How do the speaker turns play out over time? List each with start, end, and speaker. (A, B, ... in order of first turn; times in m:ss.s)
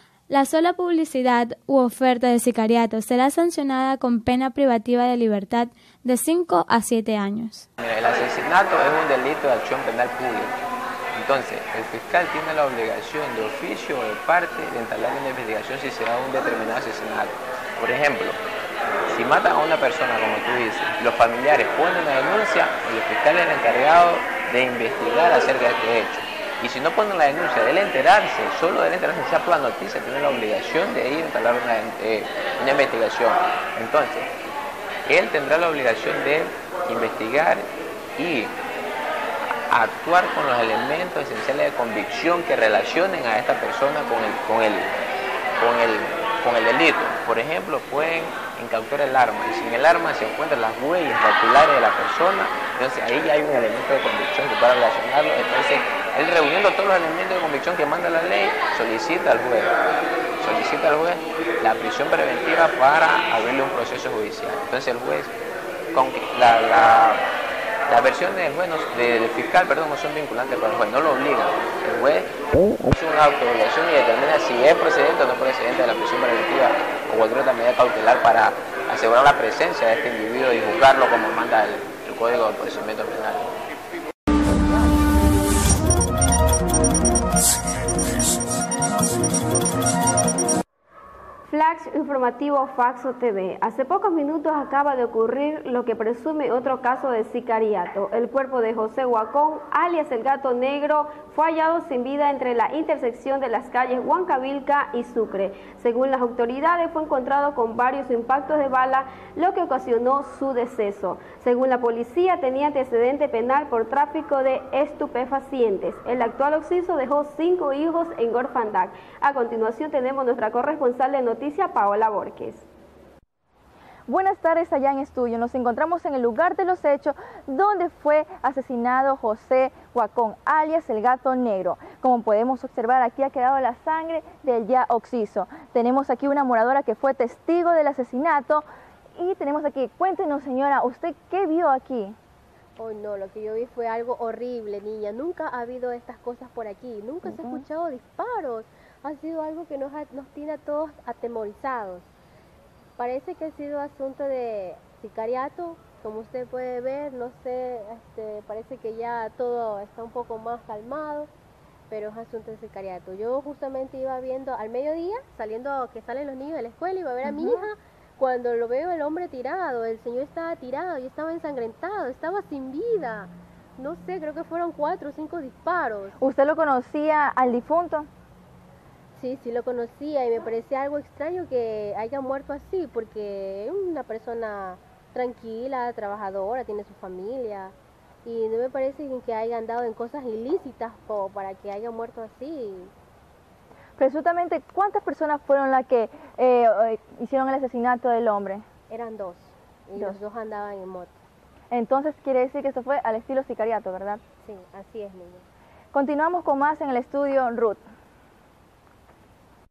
0:00.3-0:07.6 A
0:07.8-0:10.6 B
0:11.1-0:18.4 B
0:19.1-0:34.3 B
0:35.0-0:38.6 B
0:39.7-0:44.9 B
0:45.6-0:59.7 B
1:00.4-1:05.3 B
1:05.9-1:07.2 B
1:07.9-1:12.3 B
1:12.8-1:23.5 B
1:31.5-2:02.6 C
2:04.1-2:18.6 D
2:19.2-2:22.2 D
2:22.8-2:32.1 E
2:27.3-2:27.6 D
2:33.0-2:41.3 E
2:41.9-2:56.1 E
2:47.2-2:47.6 D
2:56.2-2:58.1 D
2:59.1-3:07.7 E
3:08.2-3:12.9 E
3:14.0-3:18.6 D
3:18.9-3:21.2 E
3:21.7-3:24.2 D
3:24.4-3:25.4 E
3:25.9-3:27.8 D